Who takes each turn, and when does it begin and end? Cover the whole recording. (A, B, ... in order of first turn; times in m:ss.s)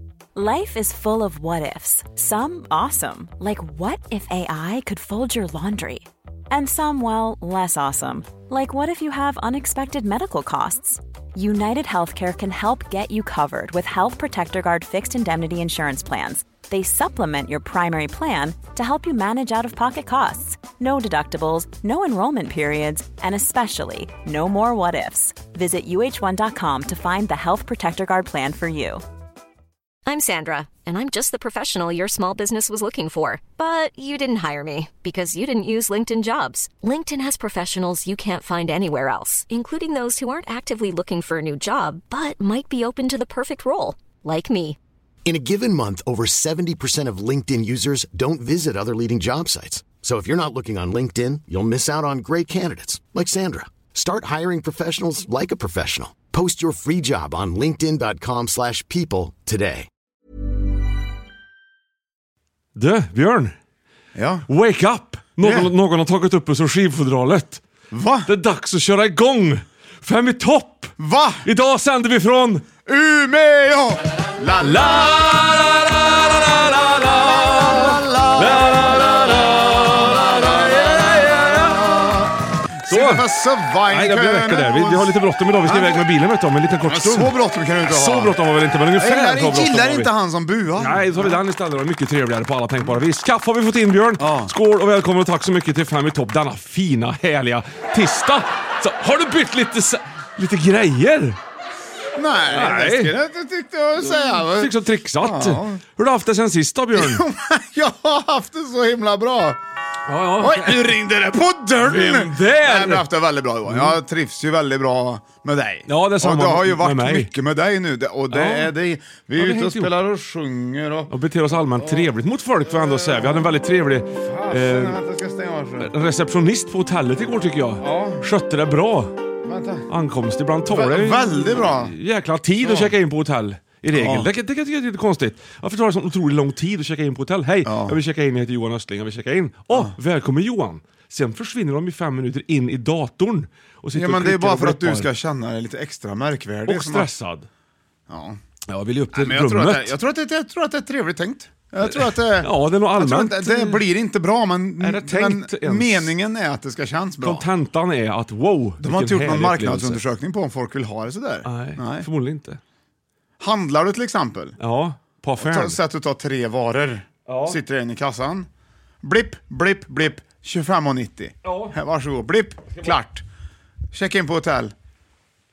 0:00.3-0:29.0 A
0:30.0-0:44.8 B
0:45.2-0:59.9 C
1:02.8-1:03.5 D
1:04.1-1:04.5 E
1:04.5-1:07.6 D
1:05.4-1:05.7 E
1:07.9-1:08.3 E
1:08.2-1:12.6 D
1:11.0-1:11.5 E
1:12.8-1:15.4 E
1:14.6-1:22.1 D
1:17.4-1:26.1 E
1:22.8-1:23.2 D
1:23.9-1:30.1 D
1:26.8-1:28.4 E
1:29.0-1:31.4 E
1:30.8-1:41.4 D
1:34.2-1:34.5 E
1:42.1-1:45.8 E
1:42.5-1:43.1 D
1:44.0-1:47.2 D
1:46.9-1:49.6 E
1:50.1-1:50.9 D
1:50.4-2:01.1 E
1:51.8-1:53.1 D
1:53.7-1:54.0 D
1:55.9-1:57.3 D
1:58.3-1:58.7 D
1:59.4-1:59.9 D
2:01.1-2:05.0 D
2:01.8-2:02.1 E
2:02.7-2:03.5 E
2:04.2-2:05.9 E
2:05.8-2:09.1 D
2:07.8-2:08.3 E
2:09.4-2:09.9 E
2:09.9-2:25.1 D
2:10.7-2:11.9 E
2:12.6-2:12.9 E
2:13.9-2:14.3 E
2:17.6-2:18.0 E
2:19.7-2:20.0 E
2:23.9-2:27.1 E
2:26.6-2:27.5 D
2:28.1-2:28.4 E
2:28.7-2:29.9 D
2:29.1-2:37.4 E
2:31.8-2:33.8 D
2:34.8-2:36.1 D
2:37.2-2:40.0 D
2:38.8-2:42.1 E
2:41.4-2:42.6 D
2:43.4-2:44.6 E
2:44.6-2:45.8 D
2:45.4-2:48.5 E
2:47.3-2:47.6 D
2:49.0-2:53.2 E
2:51.4-2:51.8 D
2:53.9-2:54.7 E